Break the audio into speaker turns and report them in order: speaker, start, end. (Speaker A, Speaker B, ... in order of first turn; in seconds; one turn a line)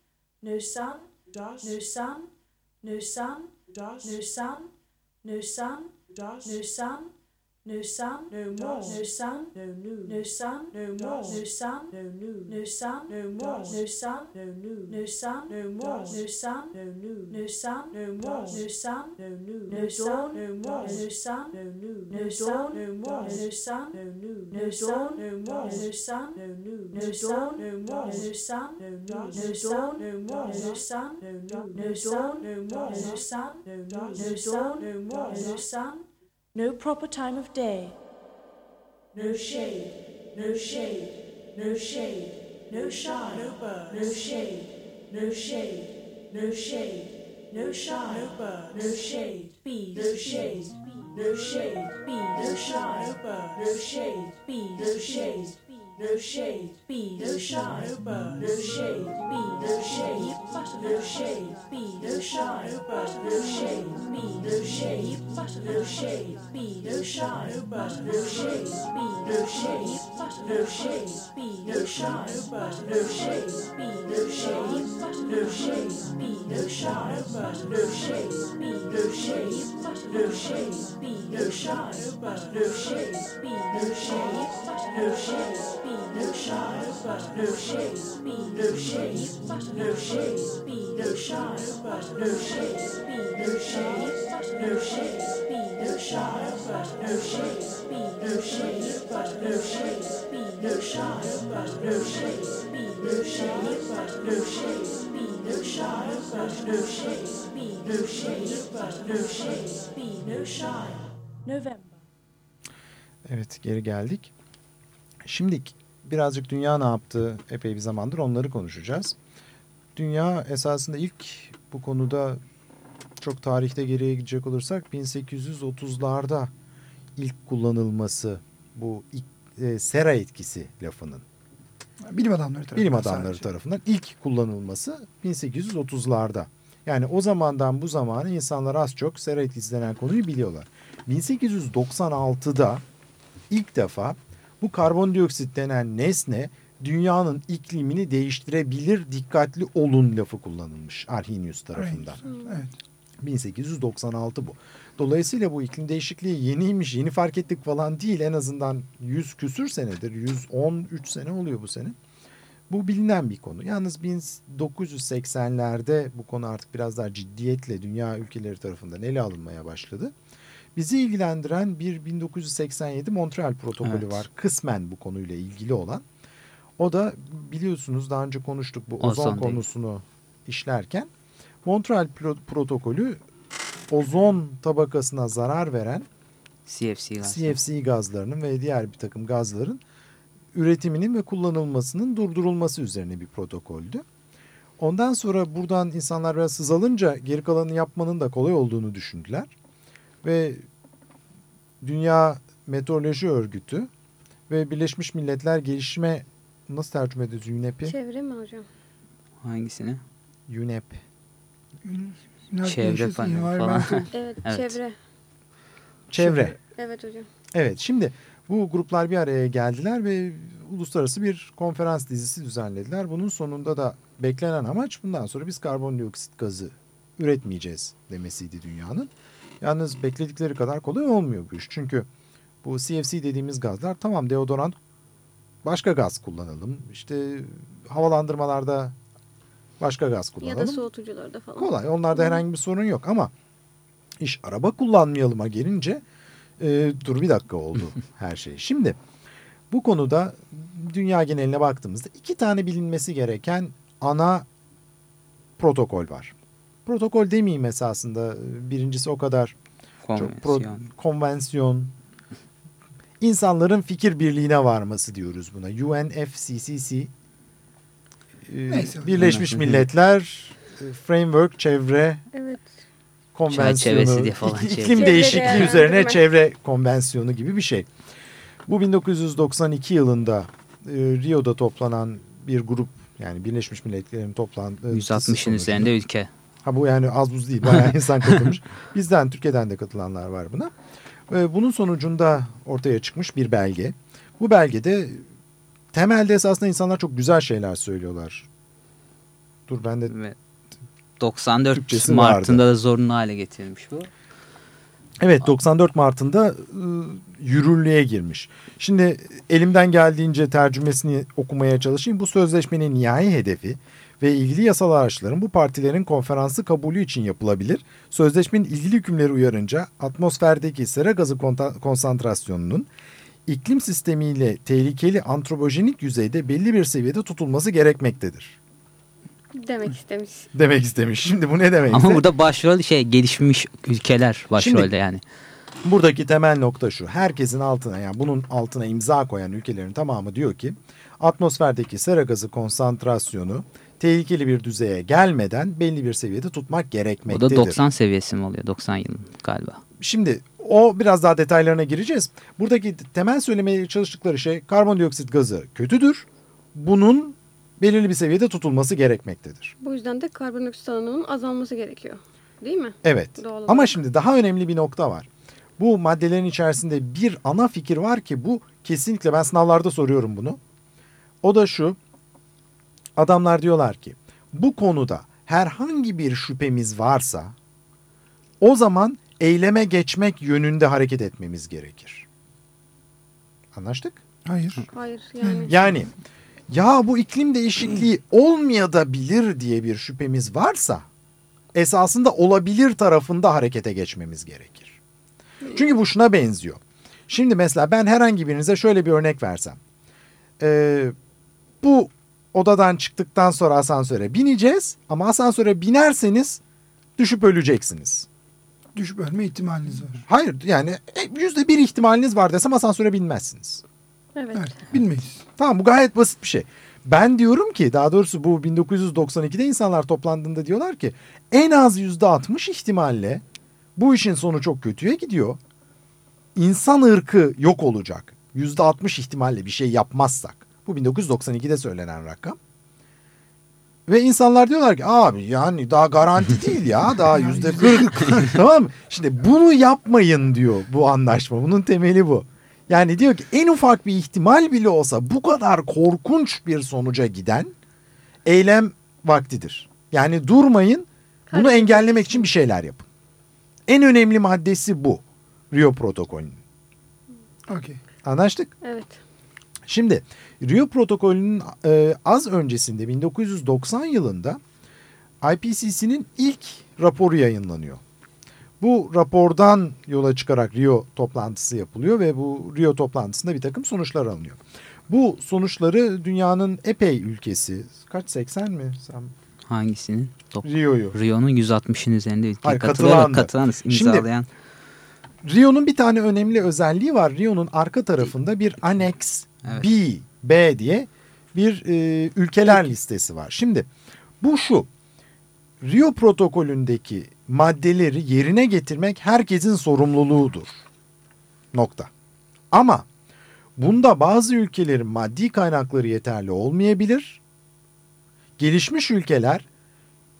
Speaker A: 0.4-38.0
Speaker A: 39.1-68.6
Speaker A: 69.2-72.6
Speaker A: 74.1-77.8
Speaker A: 79.1-82.7
Speaker A: 83.5-85.4
Speaker A: 86.0-87.8
Speaker A: 88.3-92.6
Speaker A: 93.2-112.0
Speaker B: 113.3-114.3
Speaker B: 115.2-119.2
Speaker B: 119.9-122.4
Speaker B: 123.2-126.5
Speaker B: 127.2-131.2
Speaker C: 132.0-133.5
Speaker B: 132.7-142.8
Speaker B: 143.5-152.2
Speaker C: 151.7-152.7
Speaker B: 153.2-161.9
Speaker B: 162.7-170.1
Speaker B: 170.7-176.0
Speaker D: 173.8-174.2
Speaker B: 176.8-181.1
Speaker D: 179.0-179.6
Speaker B: 181.6-183.2
Speaker B: 183.9-186.1
Speaker D: 186.7-187.6
Speaker B: 187.2-189.8
Speaker B: 190.5-194.0
Speaker B: 194.8-199.5
Speaker B: 200.2-200.6
Speaker B: 201.8-203.9
Speaker B: 204.5-207.9
Speaker E: 207.8-208.7
Speaker D: 209.4-210.0
Speaker B: 210.5-211.0
Speaker C: 211.8-214.1
Speaker D: 212.6-214.8
Speaker E: 214.1-214.9
Speaker B: 216.1-216.6
Speaker C: 216.2-216.6
Speaker E: 216.8-217.3
Speaker B: 217.5-232.1
Speaker B: 232.6-234.8
Speaker B: 235.6-238.9
Speaker B: 239.8-240.8
Speaker E: 240.4-242.4
Speaker B: 241.6-243.3
Speaker B: 244.2-246.0
Speaker B: 246.6-249.0
Speaker B: 249.7-254.4
Speaker B: 255.6-256.3
Speaker B: 256.9-259.5
Speaker D: 260.0-260.8
Speaker B: 260.1-261.9
Speaker B: 263.2-267.1
Speaker B: 268.4-272.2
Speaker C: 268.7-269.1
Speaker D: 269.1-269.8
Speaker E: 272.3-272.7
Speaker B: 273.3-277.9
Speaker D: 273.5-275.7
Speaker E: 274.9-276.2
Speaker B: 278.7-285.9
Speaker D: 284.9-286.3
Speaker B: 286.6-290.7
Speaker B: 291.3-295.2
Speaker B: 295.9-298.5
Speaker B: 299.7-300.1
Speaker D: 300.1-300.3
Speaker D: 301.2-304.1
Speaker B: 301.7-302.6
Speaker B: 305.2-322.9
Speaker B: 323.5-328.6
Speaker E: 329.5-330.5
Speaker B: 330.5-332.3
Speaker D: 331.9-335.2
Speaker B: 334.6-334.9
Speaker B: 335.8-347.8
Speaker D: 347.3-349.8
Speaker B: 350.0-359.7
Speaker E: 359.8-364.0
Speaker B: 363.0-365.3
Speaker B: 365.8-370.6
Speaker B: 371.4-372.0
Speaker B: 373.1-377.5
Speaker B: 378.6-382.2
Speaker B: 383.7-384.2
Speaker C: 384.4-384.9
Speaker E: 384.9-385.7
Speaker C: 385.4-385.9
Speaker B: 385.7-386.1
Speaker B: 386.7-391.1
Speaker B: 391.7-395.0
Speaker B: 395.7-399.8
Speaker B: 400.6-401.1
Speaker B: 401.8-406.6
Speaker B: 407.2-408.3
Speaker C: 408.9-410.2
Speaker B: 410.2-413.8
Speaker E: 414.3-414.7
Speaker C: 414.5-415.4
Speaker B: 415.6-423.4
Speaker B: 423.9-425.6
Speaker B: 426.5-432.6
Speaker B: 434.1-447.7
Speaker C: 437.2-438.5
Speaker B: 448.4-453.1
Speaker E: 451.5-452.5
Speaker B: 453.9-456.6
Speaker C: 457.7-458.0
Speaker B: 458.2-458.7
Speaker E: 458.8-459.2
Speaker B: 459.9-464.6
Speaker B: 465.4-468.0
Speaker B: 468.8-479.3
Speaker D: 479.6-484.5
Speaker B: 480.6-481.1
Speaker B: 482.6-484.2
Speaker B: 485.4-493.9
Speaker B: 494.4-494.9
Speaker B: 495.8-500.8
Speaker B: 501.7-502.1
Speaker B: 502.7-503.1
Speaker B: 503.8-507.4
Speaker B: 508.6-509.6